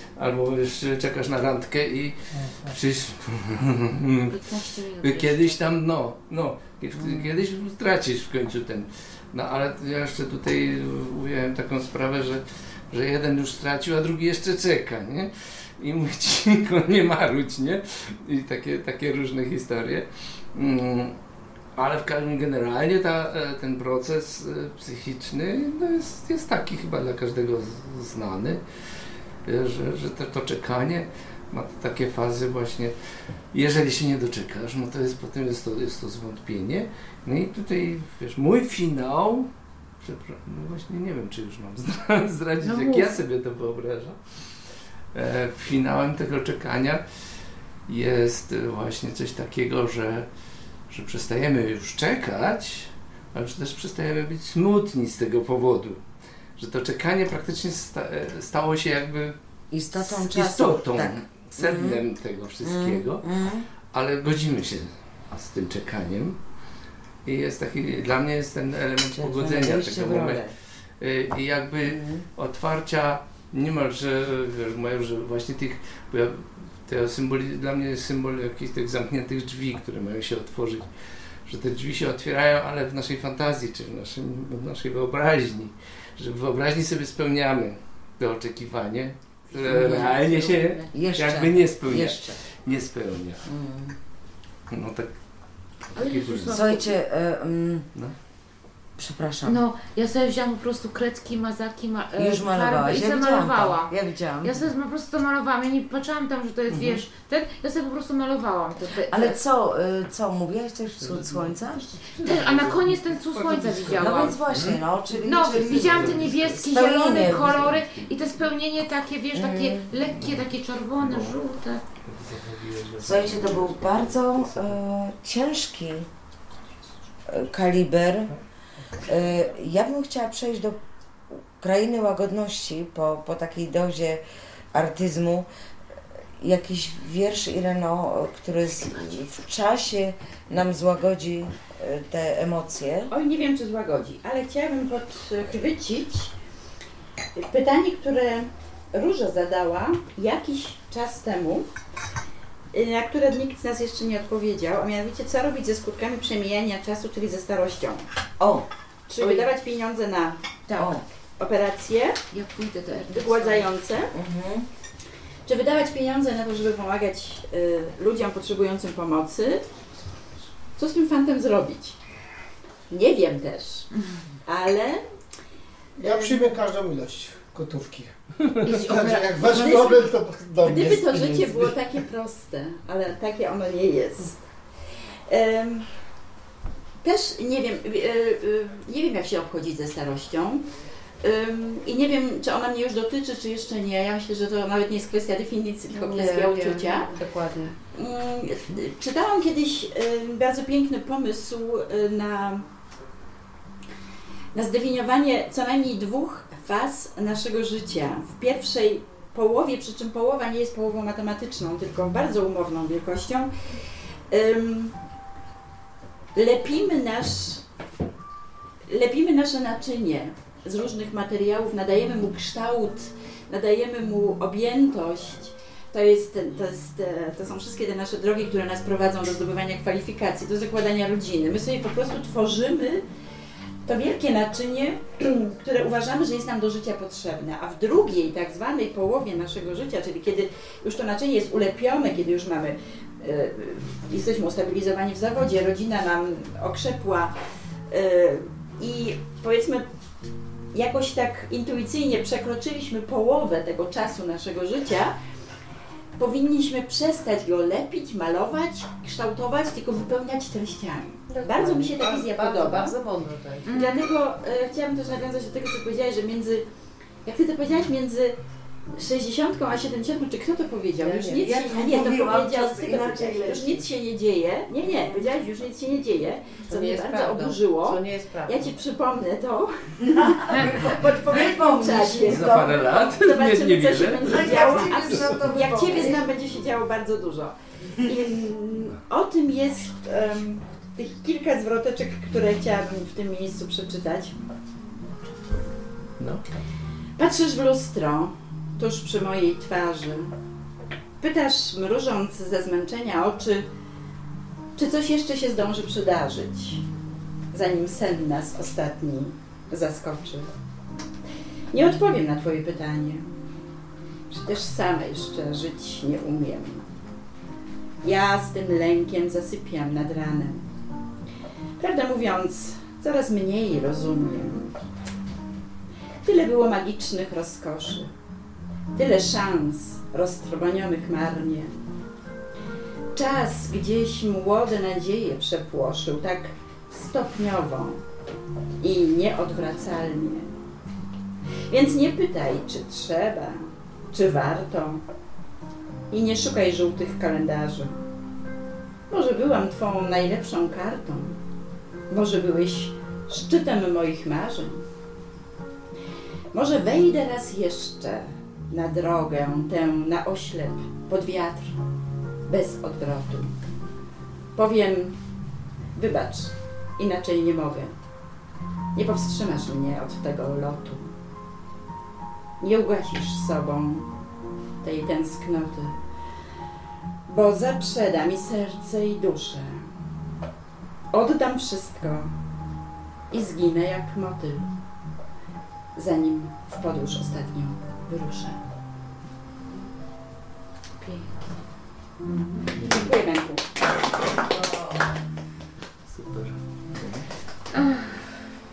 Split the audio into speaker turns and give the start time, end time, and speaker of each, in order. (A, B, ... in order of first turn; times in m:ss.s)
0:00.2-0:21.2 A
0:02.3-0:02.8 B
0:04.3-0:05.6 C
0:21.8-0:28.6 A
0:29.4-0:33.0 A
0:33.5-0:39.5 A
0:40.0-0:44.4 A
0:42.6-0:43.2 D
0:45.1-0:47.0 A
0:47.9-0:50.3 A
0:50.9-0:56.0 A
0:56.6-0:59.4 A
0:59.7-1:02.0 E
1:00.0-1:03.3 A
1:02.6-1:03.7 E
1:03.9-1:06.4 A
1:07.2-1:10.4 A
1:09.2-1:10.5 E
1:11.0-1:20.9 A
1:11.8-1:12.2 E
1:21.4-1:33.5 A
1:29.5-1:30.9 C
1:29.7-1:30.2 E
1:30.9-1:32.4 E
1:33.5-1:34.0 E
1:34.7-1:35.1 A
1:35.9-1:36.8 A
1:36.0-1:36.8 C
1:36.5-1:37.9 E
1:39.0-1:39.6 E
1:39.5-1:49.4 C
1:42.2-1:44.6 E
1:46.7-1:47.0 A
1:49.1-1:52.0 E
1:51.0-1:54.8 A
1:52.2-1:54.4 C
1:54.0-1:57.8 E
1:55.2-2:01.8 C
1:55.5-1:56.5 A
1:57.2-1:58.0 A
1:59.3-1:59.9 E
2:00.1-2:00.5 A
2:01.0-2:01.4 A
2:02.0-2:04.8 A
2:03.0-2:06.1 E
2:07.3-2:08.4 E
2:09.0-2:10.8 E
2:11.3-2:15.5 E
2:16.4-2:23.1 E
2:23.1-2:26.3 F
2:27.4-2:31.7 F
2:32.7-2:38.0 F
2:38.4-2:38.7 E
2:39.1-2:40.4 F
2:39.2-2:39.5 C
2:40.7-2:41.0 C
2:40.8-2:41.0 E
2:41.4-2:42.2 F
2:42.3-2:43.7 C
2:43.1-2:44.1 F
2:44.1-2:44.7 E
2:45.5-2:49.7 F
2:50.8-2:52.0 F
2:52.9-2:53.9 F
2:54.5-2:55.0 F
2:56.0-3:02.0 B
2:56.0-2:56.4 F
2:58.6-2:59.7 C
2:59.5-3:00.1 F
3:00.6-3:04.4 F
3:05.3-3:05.9 F
3:07.0-3:10.7 F
3:11.2-3:17.2 F
3:15.9-3:17.8 D
3:17.9-3:22.7 F
3:24.5-3:33.5 F
3:34.3-3:35.0 F
3:36.4-3:37.6 F
3:38.9-3:53.0 F
3:53.8-4:07.4 F
4:07.9-4:09.9 F
4:10.7-4:15.2 F
4:16.2-4:23.0 F
4:21.3-4:23.8 D
4:23.6-4:24.1 C
4:23.7-4:26.7 F
4:27.2-4:28.4 F
4:29.0-4:54.4 F
4:31.0-4:31.8 D
4:31.4-4:33.8 E
4:34.8-4:35.3 D
4:36.7-4:38.8 D
4:40.0-4:42.8 E
4:40.5-4:40.8 C
4:42.2-4:45.5 A
4:44.2-4:46.2 E
4:45.9-4:46.2 D
4:57.2-5:00.3 F
5:01.2-5:03.7 F
5:04.8-5:06.8 F
5:07.5-5:10.5 F
5:11.7-5:13.3 F
5:14.3-5:16.9 F
5:18.0-5:20.6 F
5:21.8-5:24.8 F
5:26.2-5:28.1 F
5:29.0-5:31.7 F
5:33.1-5:38.0 F
5:38.8-5:40.5 F
5:41.7-5:45.0 F
5:46.1-5:48.0 F
5:49.1-5:51.4 F
5:52.1-5:54.9 F
5:56.5-6:01.8 F
6:02.5-6:03.5 F
6:04.6-6:05.2 F
6:06.0-6:07.9 F
6:09.0-6:11.1 F
6:12.6-6:14.1 F
6:14.8-6:16.0 F
6:17.3-6:19.9 F
6:21.1-6:22.3 F
6:23.3-6:24.7 F
6:26.0-6:28.6 F
6:31.0-6:31.5 C
6:32.8-6:33.7 F
6:34.6-6:34.9 E
6:36.1-6:37.3 A
6:37.7-6:38.2 C